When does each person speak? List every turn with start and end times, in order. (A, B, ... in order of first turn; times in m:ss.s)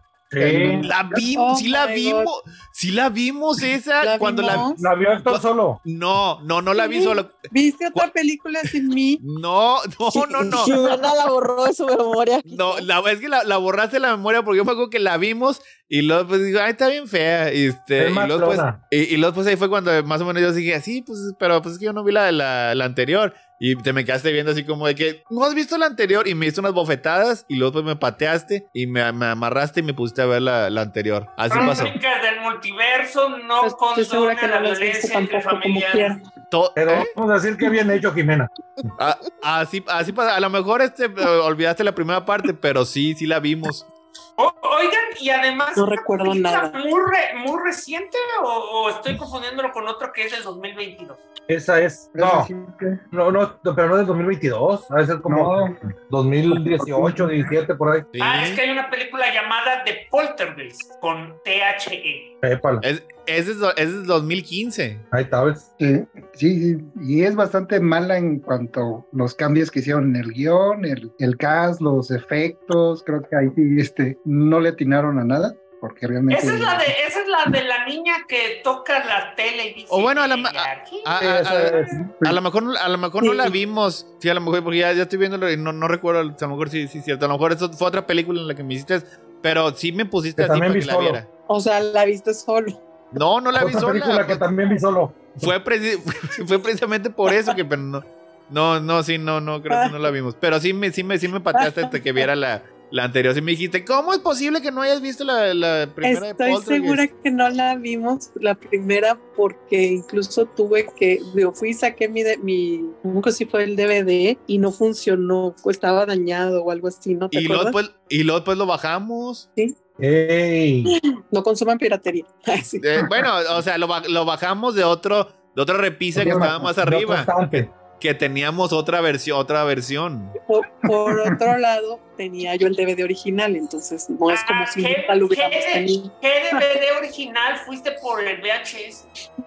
0:00.3-0:00.9 A
0:00.4-0:01.2 B
0:00.8-0:04.7 C
0:01.4-0:02.3 D
0:04.0-0:04.8 D
0:04.6-0:05.8 A
0:05.3-0:07.4 C
0:06.8-0:09.2 D
0:09.2-0:10.7 C
0:10.1-0:12.9 E
0:12.5-0:32.0 C
0:18.0-0:18.8 A
0:31.5-0:36.2 F
0:31.6-0:31.9 D
0:33.6-0:36.2 D
0:36.5-0:37.1 C
0:36.8-0:38.5 A
0:39.0-0:43.9 C
0:44.4-0:51.3 F
0:45.8-0:46.8 D
0:51.5-0:52.5 A
0:52.2-0:53.0 B
0:53.1-0:58.1 A
0:55.3-0:55.8 B
0:56.5-0:57.4 B
0:58.2-0:58.6 C
0:58.2-1:02.3 F
1:02.4-1:02.8 A
1:02.8-1:05.1 C
1:05.1-1:05.7 A
1:05.8-1:16.9 B
1:16.3-1:21.2 F
1:19.9-1:31.3 C
1:21.2-1:21.9 A
1:23.2-1:23.6 D
1:30.4-1:31.2 A
1:31.5-1:32.8 D
1:33.1-1:34.4 C
1:33.6-1:35.5 A
1:35.4-1:47.0 C
1:39.7-1:40.1 D
1:41.5-1:42.2 D
1:46.0-1:57.8 D
1:57.3-1:59.5 C
2:00.0-2:00.9 A
2:00.9-2:02.9 D
2:02.8-2:10.4 C
2:06.2-2:06.7 B
2:06.8-2:07.7 A
2:10.5-2:16.1 D
2:14.3-2:19.1 F